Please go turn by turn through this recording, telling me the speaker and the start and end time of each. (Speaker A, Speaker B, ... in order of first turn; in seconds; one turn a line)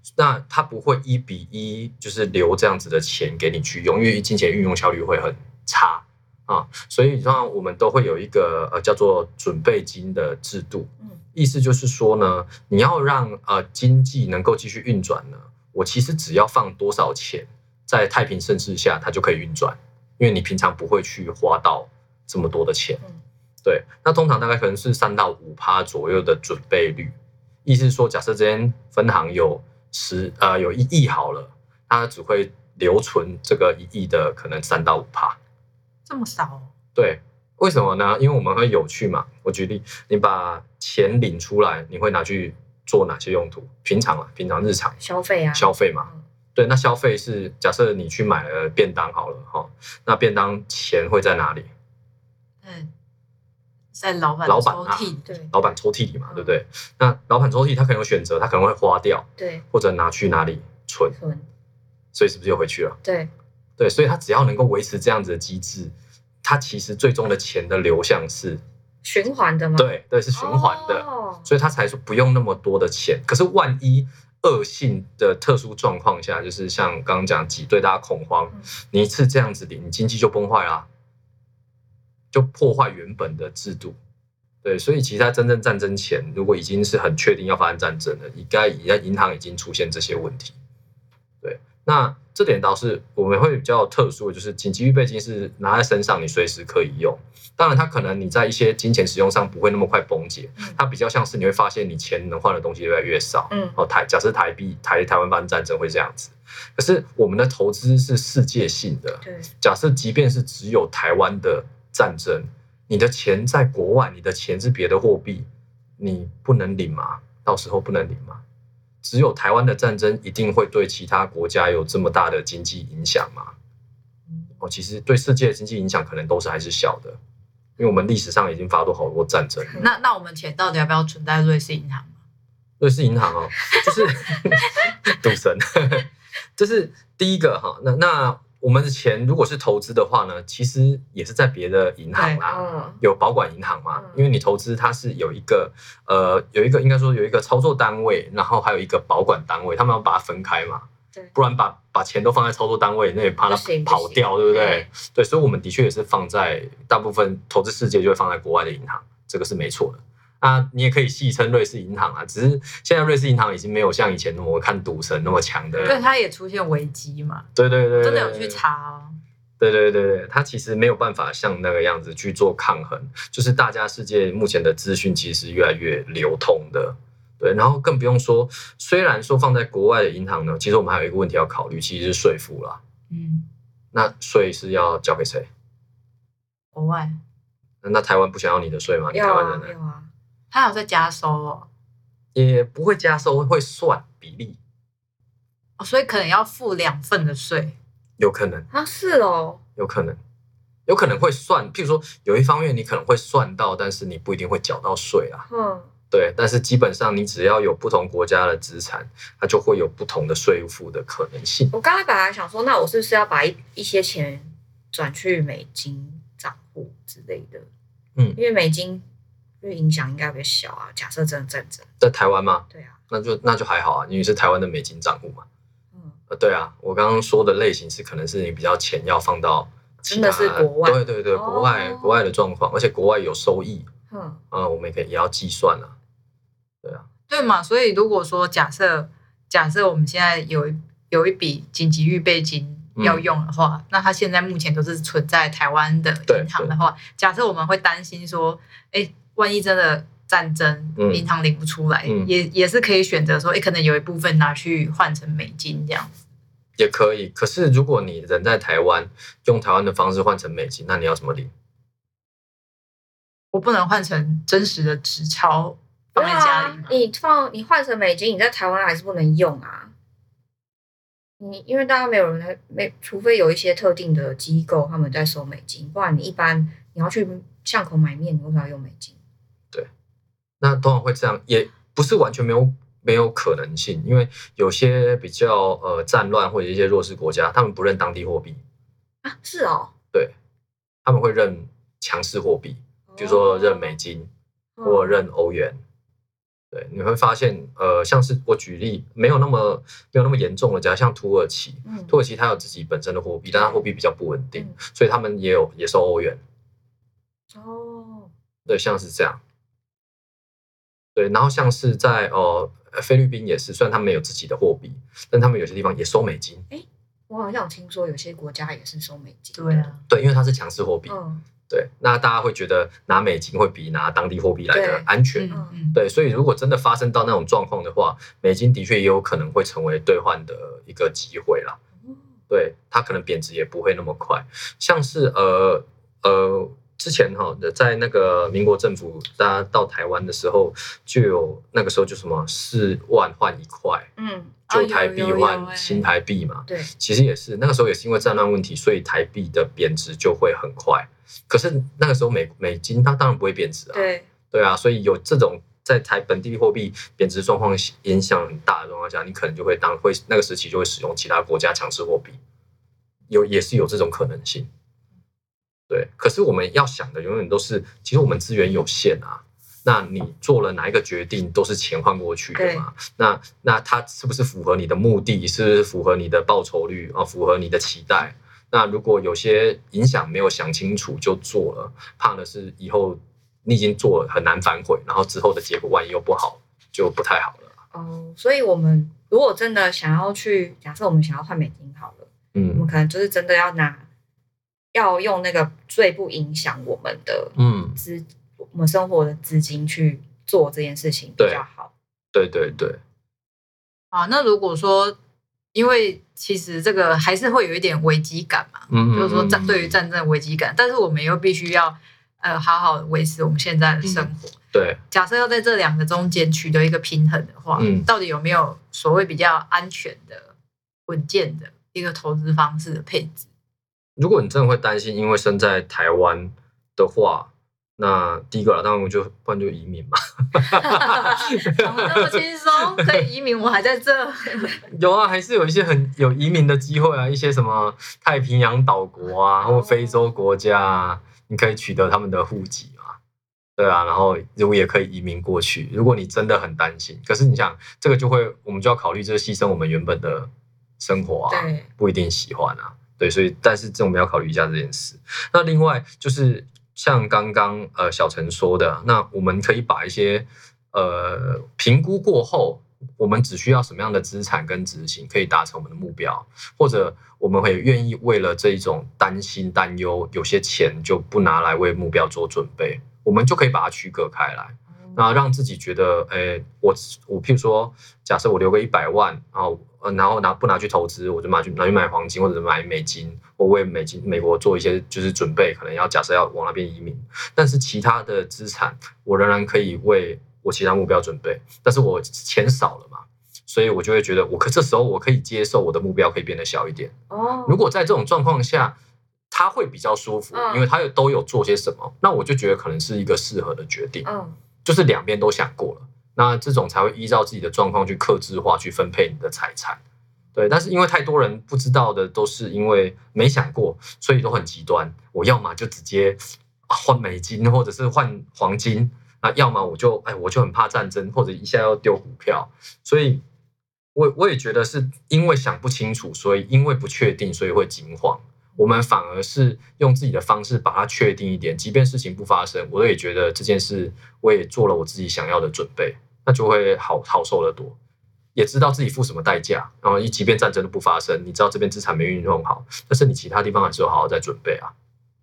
Speaker A: 0.1-23.0
Speaker A: 23.6-27.1
Speaker A: 27.6-35.4
Speaker B: 36.1-36.7
Speaker A: 37.0-45.0
Speaker C: 45.0-46.2
Speaker A: 45.5-51.7
Speaker B: 52.6-52.9
Speaker B: 53.9-55.4
Speaker A: 54.5-61.1
Speaker C: 55.3-55.5
Speaker C: 56.3-56.5
Speaker C: 59.4-59.6
Speaker C: 61.1-61.5
Speaker A: 62.1-63.0
Speaker C: 63.0-63.3
Speaker A: 63.8-68.6
Speaker C: 69.0-71.5
Speaker A: 69.8-80.9
Speaker A: 82.3-84.0
Speaker A: 84.6-90.5
Speaker A: 91.4-115.5
Speaker C: 103.5-103.8
Speaker C: 109.2-109.5
Speaker A: 116.0-118.4
Speaker A: 119.0-123.5
Speaker A: 124.6-127.2
Speaker A: 127.8-129.8
Speaker B: 129.8-132.1
Speaker A: 132.8-166.0
Speaker C: 142.2-143.0
Speaker C: 143.9-144.2
Speaker C: 153.5-154.9
Speaker B: 165.8-169.2
Speaker A: 167.5-168.6
Speaker A: 169.6-182.8
Speaker B: 183.1-183.4
Speaker A: 183.9-185.5
Speaker B: 186.7-187.2
Speaker A: 187.8-189.7
Speaker C: 189.1-190.1
Speaker B: 190.5-191.7
Speaker A: 192.3-194.6
Speaker B: 195.8-197.8
Speaker A: 198.2-198.7
Speaker C: 198.7-199.6
Speaker A: 199.8-200.2
Speaker A: 200.9-205.4
Speaker C: 205.5-205.9
Speaker A: 206.1-211.7
Speaker C: 211.7-217.7
Speaker C: 218.3-219.0
Speaker C: 219.6-221.9
Speaker A: 222.0-225.4
Speaker A: 226.3-233.9
Speaker C: 230.1-232.1
Speaker C: 234.1-234.4
Speaker A: 234.5-235.9
Speaker B: 237.3-256.2
Speaker A: 243.0-243.2
Speaker A: 246.3-246.7
Speaker A: 251.0-251.2
Speaker A: 252.1-252.3
Speaker A: 256.8-261.5
Speaker B: 263.5-266.9
Speaker C: 266.1-269.9
Speaker C: 271.4-279.1
Speaker A: 280.6-288.6
Speaker C: 289.2-289.9
Speaker A: 291.0-294.3
Speaker C: 293.1-294.0
Speaker C: 294.8-295.3
Speaker A: 294.8-295.8
Speaker A: 296.7-306.4
Speaker C: 301.8-302.1
Speaker C: 303.5-303.8
Speaker C: 307.5-308.3
Speaker A: 308.7-309.4
Speaker A: 311.1-316.6
Speaker C: 316.7-319.9
Speaker B: 319.6-320.0
Speaker A: 320.1-321.1
Speaker C: 321.1-321.4
Speaker A: 321.7-331.8
Speaker C: 324.7-325.8
Speaker B: 325.4-326.0
Speaker A: 332.5-344.1
Speaker C: 344.2-344.6
Speaker B: 344.7-346.1
Speaker A: 344.7-362.4
Speaker C: 353.9-354.3
Speaker A: 363.3-364.7
Speaker A: 365.9-387.7
Speaker C: 372.5-372.8
Speaker C: 387.9-394.1
Speaker A: 392.5-392.8
Speaker C: 394.9-401.9
Speaker A: 397.6-398.0
Speaker A: 401.4-401.6
Speaker A: 402.3-403.0
Speaker B: 404.1-405.1
Speaker B: 405.7-414.6
Speaker A: 408.9-410.0
Speaker A: 414.0-415.0
Speaker B: 415.1-420.5
Speaker A: 417.8-418.1
Speaker B: 421.1-423.4
Speaker A: 424.2-432.4
Speaker B: 431.1-434.8
Speaker A: 432.9-433.2
Speaker A: 434.9-443.2
Speaker C: 439.6-440.2
Speaker A: 443.8-497.1
Speaker C: 451.5-451.9
Speaker C: 497.3-497.8
Speaker A: 497.6-499.0
Speaker A: 499.5-504.2
Speaker C: 500.5-500.9
Speaker C: 504.2-504.6
Speaker A: 504.8-510.0
Speaker A: 510.5-523.4
Speaker A: 524.1-538.0
Speaker A: 538.5-544.9